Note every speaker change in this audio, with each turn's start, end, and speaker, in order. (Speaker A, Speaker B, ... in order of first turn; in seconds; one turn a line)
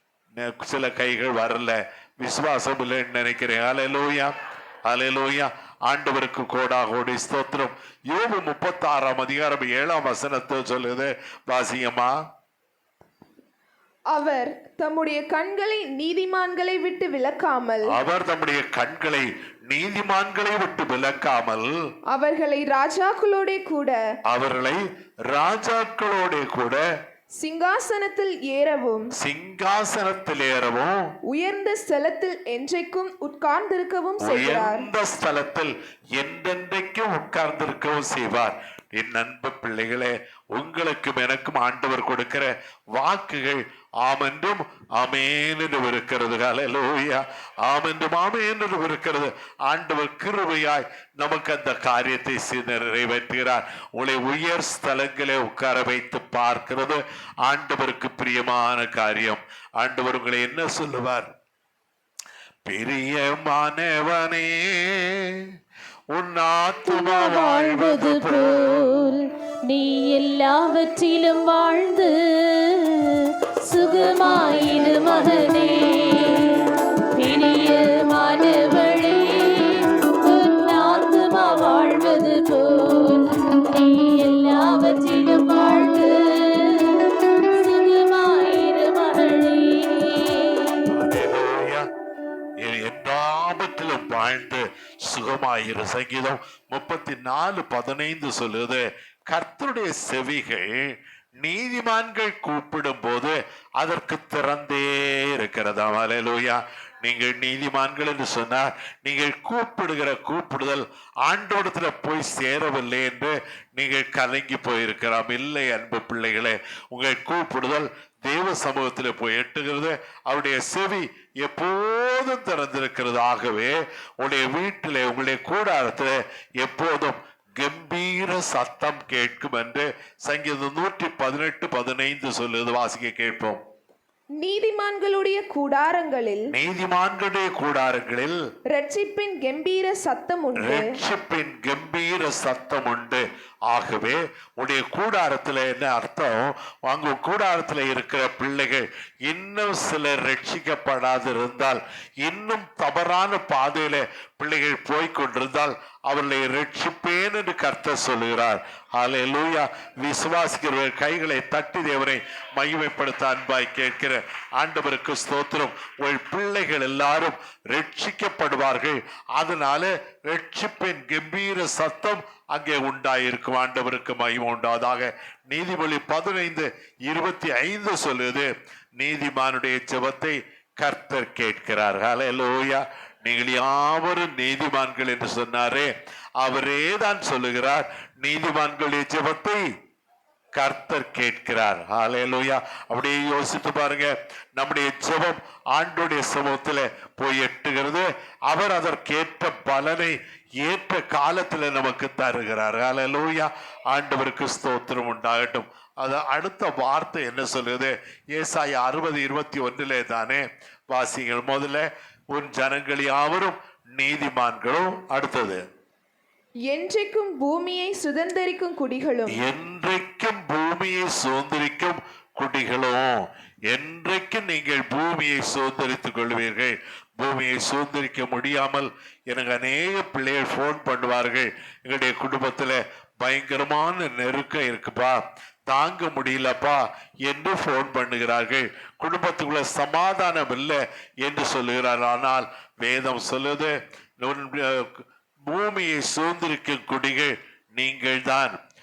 Speaker A: 0.3-4.3
Speaker A: 4.9-12.1
Speaker B: 14.1-17.9
Speaker A: 17.9-21.7
Speaker B: 22.1-24.0
Speaker A: 24.3-26.8
Speaker B: 27.4-29.1
Speaker A: 29.2-31.1
Speaker B: 31.3-34.9
Speaker A: 34.2-61.3
Speaker A: 62.6-65.5
Speaker A: 66.1-69.1
Speaker C: 66.9-90.9
Speaker A: 90.9-91.9
Speaker A: 92.6-133.6
Speaker B: 134.4-136.5
Speaker A: 136.5-138.4
Speaker B: 138.7-140.9
Speaker A: 140.6-189.6
Speaker A: 190.6-215.6
Speaker B: 216.7-219.4
Speaker A: 219.3-248.6